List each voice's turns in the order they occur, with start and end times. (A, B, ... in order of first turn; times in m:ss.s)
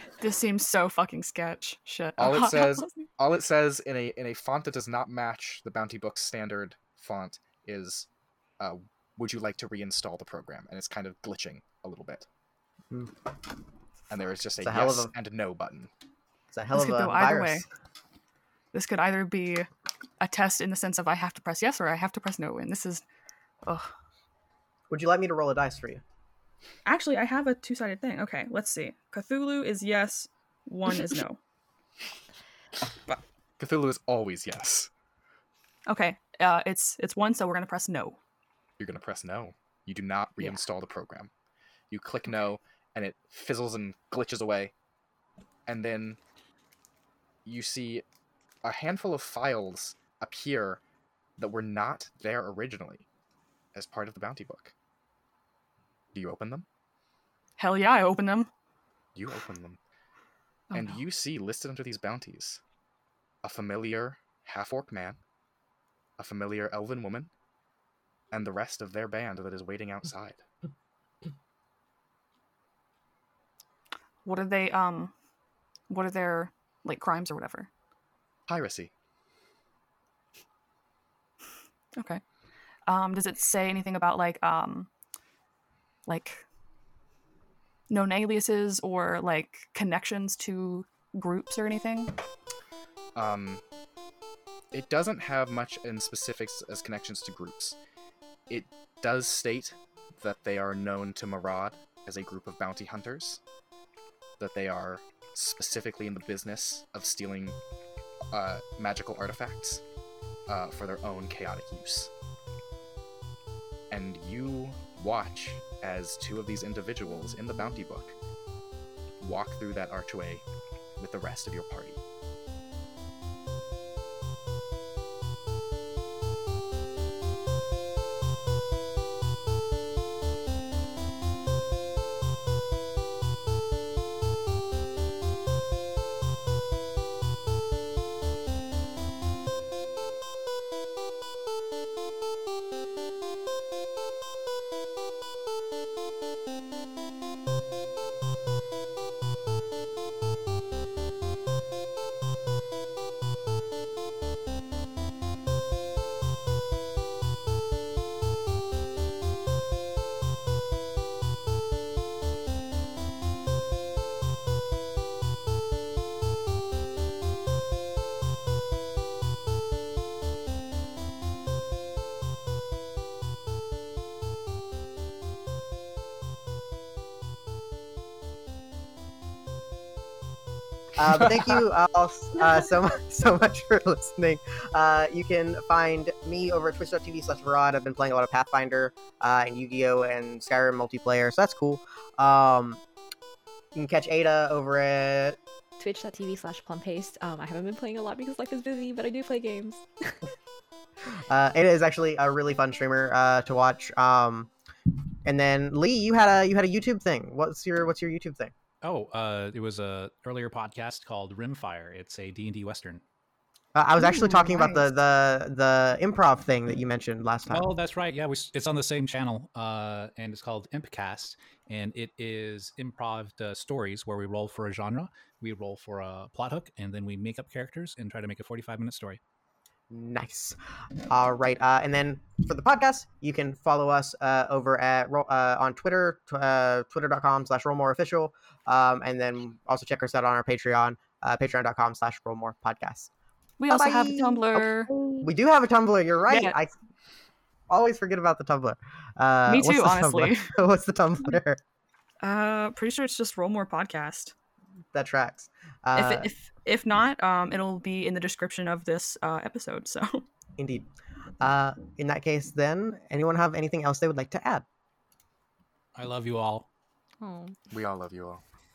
0:00.2-0:02.9 A
0:02.2-0:08.1 B
0:08.6-0:12.3 B
0:14.1-0:15.9 B
0:14.6-0:15.1 C
0:16.5-0:17.6 C
0:16.7-0:17.7 A
0:18.7-0:19.7 A
0:20.2-0:23.0 A
0:23.7-0:23.9 A
0:24.9-0:26.0 C
0:26.8-0:31.4 A
0:33.1-0:34.9 B
0:35.9-0:38.2 A
0:38.8-0:41.3 B
0:41.9-0:44.7 B
0:45.7-0:46.2 B
0:47.4-0:48.0 B
0:48.6-0:50.8 B
0:51.4-0:53.1 B
0:53.7-0:54.7 B
0:56.1-0:56.7 B
0:57.6-0:58.5 A
0:59.2-0:59.8 B
1:00.7-1:01.0 A
1:00.7-1:02.6 B
1:03.4-1:05.2 B
1:06.2-1:07.3 B
1:08.3-1:10.4 B
1:14.2-1:15.1 A
1:15.9-1:17.7 A
1:18.5-1:18.9 B
1:22.0-1:22.2 A
1:22.9-1:24.9 A
1:26.1-1:26.4 A
1:27.9-1:32.2 A
1:33.2-1:33.6 B
1:34.7-1:37.8 B
1:38.5-1:43.4 B
1:44.4-1:47.6 B
1:48.3-1:49.8 B
1:50.5-1:52.1 B
1:53.9-1:58.2 B
1:59.2-2:00.4 B
2:01.0-2:02.0 B
3:01.0-3:12.8 C
3:13.7-3:15.4 C
3:15.8-3:20.1 D
3:21.1-3:24.5 C
3:25.2-3:28.5 C
3:28.8-3:33.0 E
3:33.8-3:37.7 C
3:34.0-3:34.9 A
3:37.5-3:49.2 E
3:49.9-3:50.6 C
3:51.1-4:03.1 C
4:03.6-4:04.9 A
4:03.7-4:04.6 C
4:05.2-4:06.7 C
4:06.3-4:06.6 A
4:07.7-4:11.6 C
4:09.5-4:10.5 A
4:12.2-4:14.3 A
4:14.9-4:16.3 C
4:16.0-4:20.3 A
4:20.6-4:20.9 C
4:21.4-4:24.6 C
4:26.0-4:26.7 E
4:27.2-4:27.6 D
4:27.7-4:28.4 B